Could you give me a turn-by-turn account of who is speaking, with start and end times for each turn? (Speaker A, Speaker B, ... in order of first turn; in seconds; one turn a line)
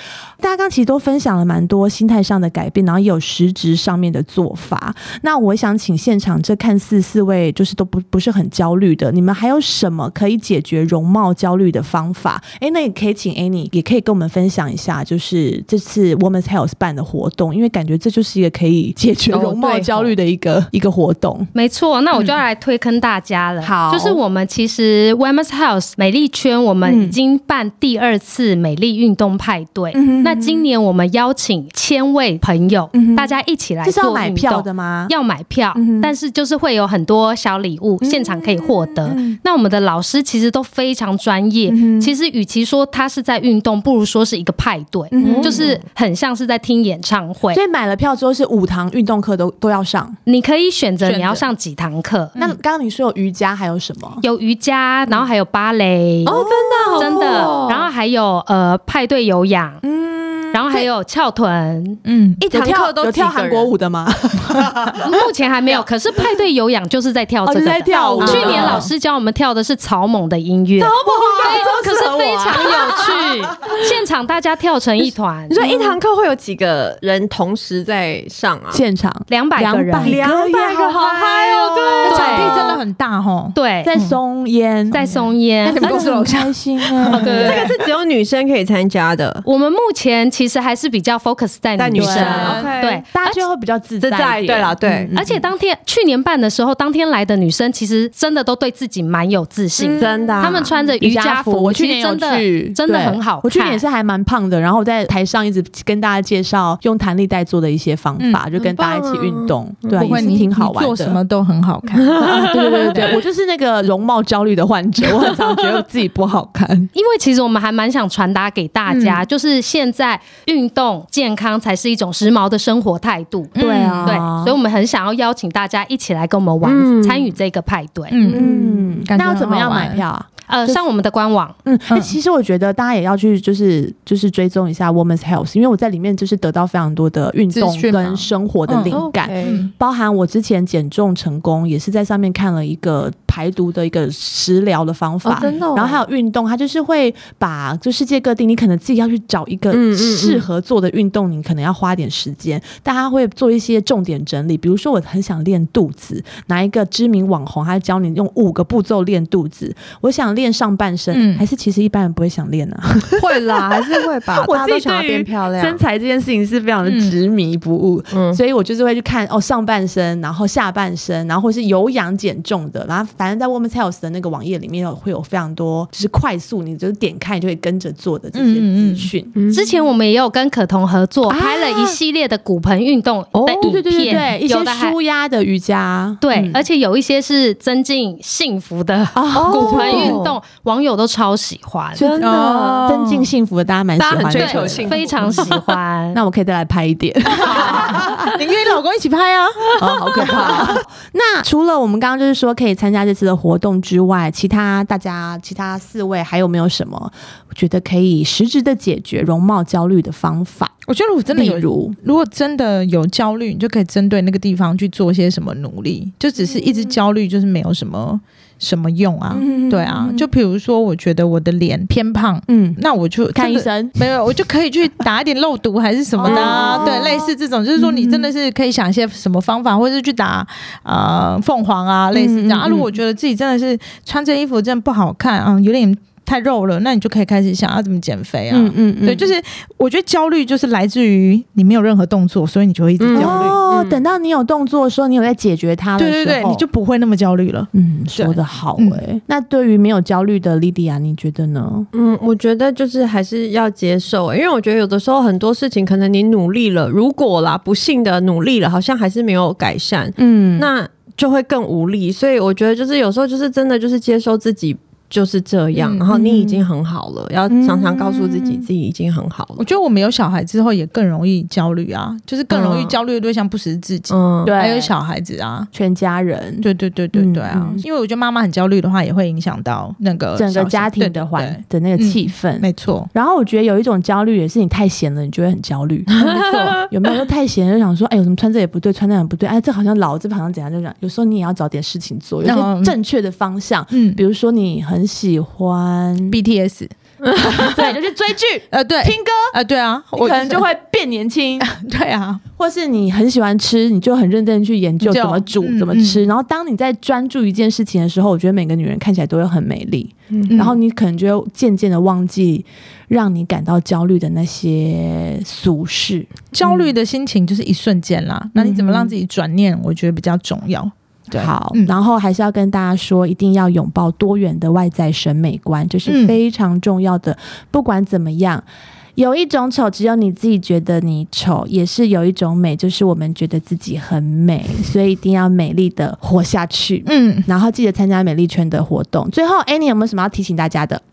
Speaker A: 0.4-21.5
Speaker B: 19.3-20.1
Speaker C: 21.5-47.6
Speaker A: 23.6-24.2
Speaker A: 26.8-27.2
Speaker A: 29.9-30.7
Speaker A: 32.9-35.1
Speaker A: 35.7-36.1
Speaker A: 38.0-39.4
Speaker A: 41.7-42.1
Speaker A: 45.1-45.7
Speaker B: 45.2-45.8
Speaker A: 47.5-50.2
Speaker C: 50.3-52.3
Speaker D: 51.0-51.4
Speaker A: 52.4-54.2
Speaker C: 54.2-56.4
Speaker B: 56.2-57.9
Speaker A: 56.3-57.6
Speaker C: 57.0-59.8
Speaker A: 59.8-60.9
Speaker C: 60.5-62.0
Speaker D: 62.0-62.4
Speaker B: 62.4-63.7
Speaker A: 62.5-65.3
Speaker C: 65.0-75.6
Speaker A: 67.4-68.9
Speaker B: 67.9-68.8
Speaker D: 68.2-68.9
Speaker B: 70.8-73.3
Speaker A: 71.1-73.3
Speaker B: 75.5-78.8
Speaker A: 75.6-76.0
Speaker A: 78.7-82.8
Speaker C: 79.3-80.2
Speaker B: 80.0-82.6
Speaker C: 82.0-82.7
Speaker D: 82.1-84.2
Speaker C: 83.5-83.9
Speaker A: 83.8-87.7
Speaker C: 84.9-85.9
Speaker D: 84.9-87.7
Speaker B: 87.1-89.4
Speaker C: 89.4-93.4
Speaker B: 91.8-93.0
Speaker A: 91.9-95.5
Speaker D: 92.1-92.7
Speaker B: 94.0-95.1
Speaker C: 95.1-103.8
Speaker A: 99.8-100.3
Speaker B: 100.0-100.7
Speaker A: 101.0-111.2
Speaker D: 108.2-108.4
Speaker B: 108.6-110.4
Speaker D: 110.0-113.2
Speaker B: 112.0-113.2
Speaker A: 112.2-116.9
Speaker C: 116.9-128.4
Speaker D: 118.9-119.2
Speaker D: 123.5-124.2
Speaker A: 123.5-124.5
Speaker B: 126.6-127.3
Speaker D: 128.1-130.0
Speaker A: 128.3-130.8
Speaker C: 130.5-131.5
Speaker A: 131.6-163.9
Speaker D: 131.9-132.1
Speaker D: 137.5-139.7
Speaker B: 138.9-139.7
Speaker B: 145.2-146.0
Speaker B: 149.7-150.4
Speaker D: 161.1-161.4
Speaker B: 163.2-165.8
Speaker A: 164.4-179.3
Speaker D: 166.8-167.2
Speaker B: 168.1-168.4
Speaker D: 178.3-179.1
Speaker B: 179.3-179.7
Speaker C: 179.5-185.0
Speaker A: 181.3-182.0
Speaker B: 183.3-183.8
Speaker A: 183.6-186.6
Speaker C: 186.2-192.0
Speaker A: 189.1-190.2
Speaker B: 189.3-190.3
Speaker A: 191.9-198.3
Speaker B: 191.9-192.8
Speaker D: 192.2-193.3
Speaker B: 194.0-195.8
Speaker D: 194.3-194.8
Speaker C: 194.3-196.2
Speaker D: 197.3-200.8
Speaker B: 197.4-198.3
Speaker A: 199.8-210.8
Speaker D: 210.9-243.6
Speaker A: 211.3-212.0
Speaker A: 216.4-216.9
Speaker A: 219.3-220.3
Speaker A: 222.5-222.8
Speaker A: 223.3-224.1
Speaker A: 226.2-228.3
Speaker B: 226.2-227.0
Speaker A: 232.1-232.9
Speaker A: 238.5-239.3
Speaker B: 243.0-244.0
Speaker A: 243.1-246.7
Speaker D: 246.0-249.0
Speaker A: 247.7-251.9
Speaker B: 251.9-269.6
Speaker A: 260.2-260.7
Speaker D: 265.7-266.1
Speaker A: 266.1-266.6
Speaker A: 267.5-268.7
Speaker D: 269.6-275.7
Speaker B: 272.5-272.9
Speaker B: 274.1-274.5
Speaker A: 274.4-274.9
Speaker A: 275.7-277.8
Speaker D: 276.6-283.1
Speaker A: 280.4-296.4
Speaker B: 286.1-286.9
Speaker D: 292.4-292.9
Speaker D: 293.9-294.2
Speaker D: 296.3-296.9
Speaker B: 297.2-297.9
Speaker A: 297.5-299.5
Speaker D: 297.5-297.9
Speaker D: 298.7-300.6
Speaker A: 300.1-301.7
Speaker D: 301.6-302.4
Speaker A: 302.6-316.9
Speaker D: 305.0-306.2
Speaker D: 310.5-310.8
Speaker D: 316.5-321.9
Speaker A: 318.6-319.1
Speaker A: 321.3-328.6
Speaker D: 326.1-326.4
Speaker A: 329.1-341.0
Speaker D: 337.1-337.5